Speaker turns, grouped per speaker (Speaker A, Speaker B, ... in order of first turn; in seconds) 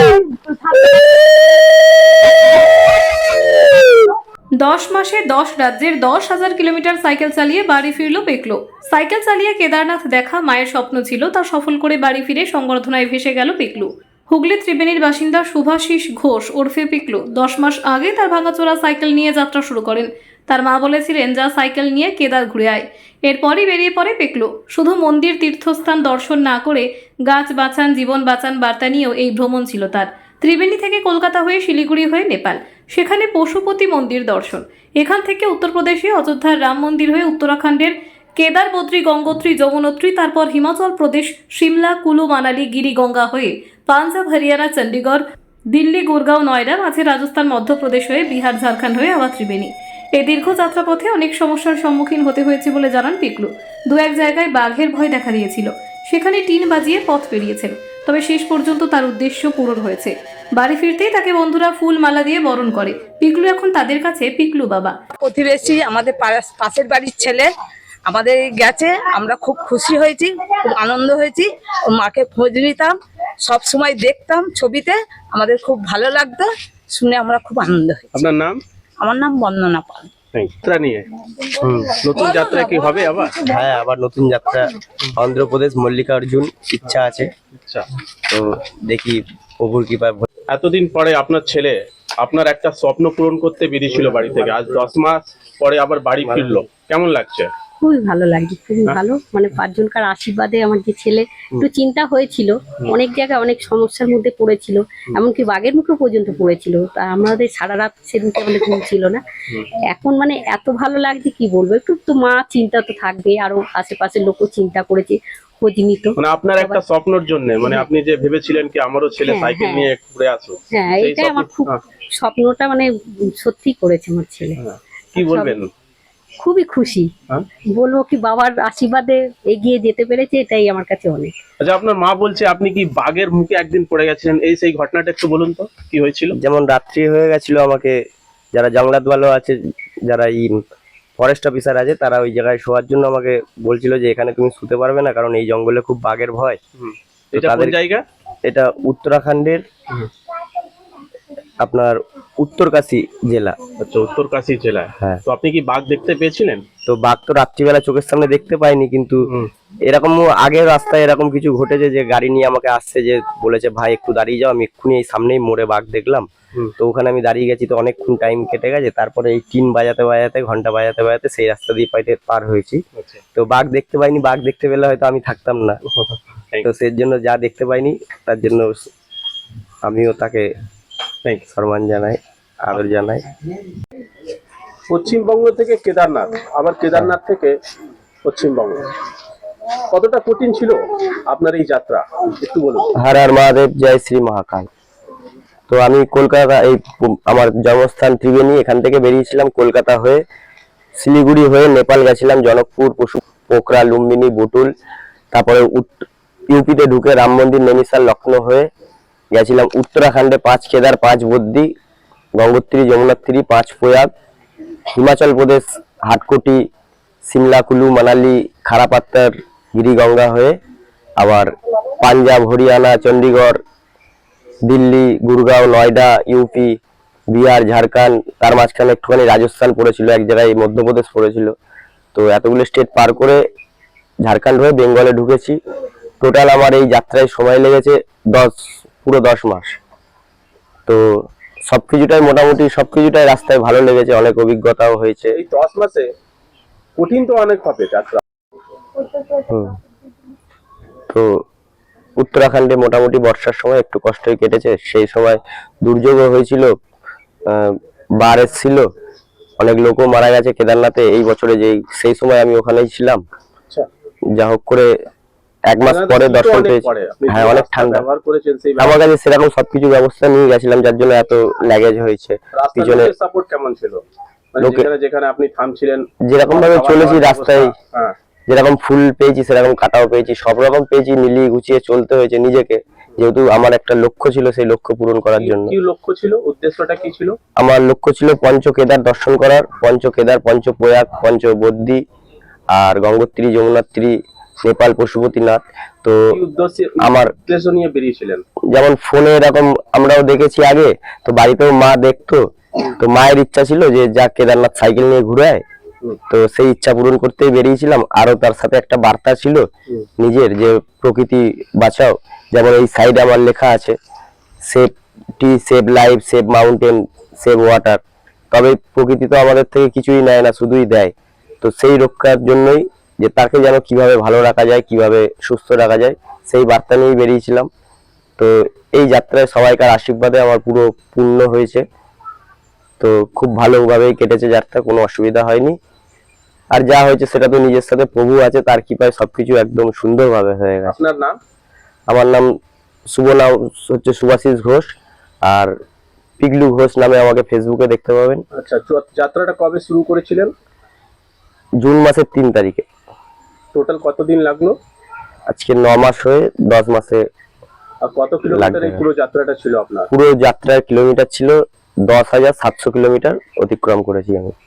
Speaker A: 4.5-65.0
Speaker B: 65.2-67.5, 68.1-78.3, 79.0-80.1, 82.1-83.5
Speaker C: 78.1-78.6, 80.3-81.1, 81.8-83.4, 87.5-87.9, 90.5-97.5, 116.2-121.8, 124.6-125.7, 131.6-136.3, 146.8-148.0, 153.8-156.7, 173.0-173.2, 175.9-176.7, 184.9-187.6, 188.2-188.8, 189.9-192.9, 245.3-246.1, 247.0-248.2, 265.8-269.0, 272.5-274.0, 274.5-278.1, 285.4-287.4, 296.3-298.4, 340.9-341.4, 348.5-350.5, 353.7-354.8, 358.0-360.1
Speaker D: 83.5-87.3, 88.3-90.2, 93.9-94.9, 96.2-96.7, 136.3-138.0, 138.5-140.6, 141.2-146.6, 147.3-147.8, 148.5-149.6, 151.6-153.6, 156.9-159.3, 159.9-166.3, 166.8-172.8, 173.4-175.8, 176.6-178.9, 179.8-180.5, 181.5-183.2, 193.0-194.7, 195.7-200.2, 201.0-204.7, 205.3-208.7, 209.3-211.7, 212.4-214.1, 215.0-216.6, 217.3-220.6, 221.2-223.6, 224.7-226.8, 227.3-231.5, 232.2-233.4, 234.2-235.6, 236.2-239.8, 240.9-245.4, 249.5-249.8, 251.1-251.4, 252.2-256.8, 257.5-258.9, 259.6-263.2, 264.3-264.9, 265.7-268.1, 268.8-273.1, 274.6-274.9, 276.3-277.7, 278.5-285.8, 287.6-292.0, 292.7-296.2, 297.0-297.3, 298.7-302.4, 303.0-305.6, 306.3-309.6, 310.2-314.0, 314.7-318.0, 318.5-327.7, 328.4-331.8, 333.0-335.8, 336.7-341.0, 342.1-342.5, 343.1-345.7, 346.4-348.4, 351.8-352.9, 355.5-357.2, 358.5-359.1, 360.1-364.5
Speaker E: 97.8-109.2, 109.9-116.8, 119.2-119.9, 120.7-122.9, 123.4-124.6, 125.2-125.5, 126.4-127.1, 127.8-131.3